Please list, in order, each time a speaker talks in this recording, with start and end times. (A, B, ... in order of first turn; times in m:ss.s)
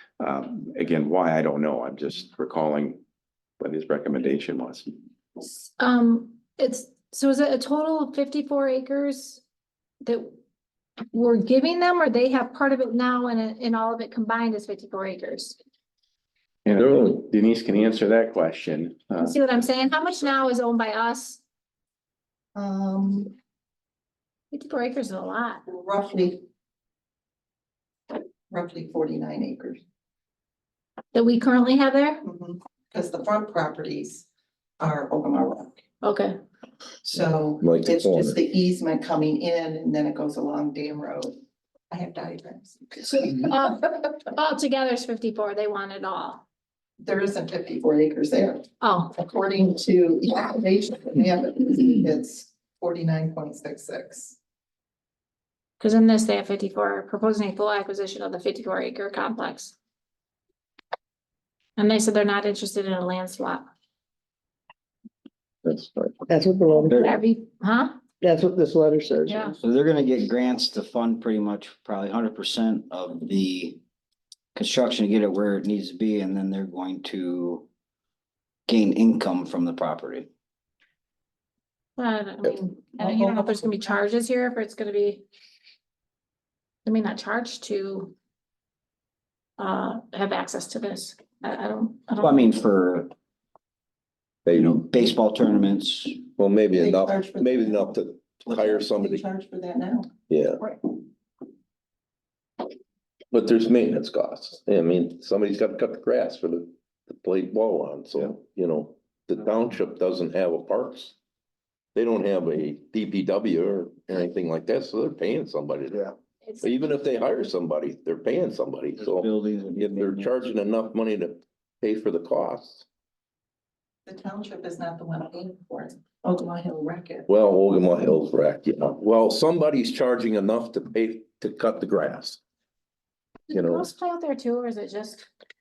0:00.2-0:03.0 A
0:03.6-0:04.9 A
0:05.4-0:09.4 B
0:10.0-0:10.3 B
0:11.1-0:15.6 B
0:16.7-0:19.4 A
0:16.8-0:17.3 C
0:19.2-0:21.4 B
0:22.6-0:23.3 D
0:24.5-0:25.6 B
0:25.7-0:26.4 D
0:28.5-0:29.8 D
0:31.1-0:32.2 B
0:32.2-0:34.3 D
0:34.8-0:35.8 D
0:36.0-0:36.4 B
0:37.0-0:41.4 D
0:37.6-0:38.4 C
0:41.9-0:43.1 D
0:43.0-0:46.4 B
0:47.0-0:54.4 D
0:48.8-0:49.1 B
0:55.8-0:59.8 B
1:01.8-1:03.7 B
1:05.6-1:06.2 C
1:06.3-1:07.0 E
1:06.7-1:08.0 B
1:06.9-1:07.2 F
1:08.2-1:09.5 E
1:09.2-1:09.6 B
1:09.6-1:13.8 F
1:14.6-1:17.7 F
1:18.7-1:20.3 F
1:22.0-1:25.2 B
1:23.0-1:24.0 D
1:26.8-1:28.1 B
1:29.6-1:32.4 B
1:32.2-1:33.1 F
1:34.4-1:34.9 C
1:34.6-1:36.2 F
1:36.4-1:39.2 C
1:36.8-1:37.9 D
1:38.4-1:40.1 D
1:40.3-1:40.6 C
1:43.3-1:51.2 C
1:52.0-1:56.1 C
1:56.4-1:56.9 B
1:56.6-2:02.9 C
1:59.0-2:00.4 F
2:04.1-2:07.3 D
2:07.3-2:12.4 C
2:13.5-2:15.3 B
2:13.5-2:13.9 C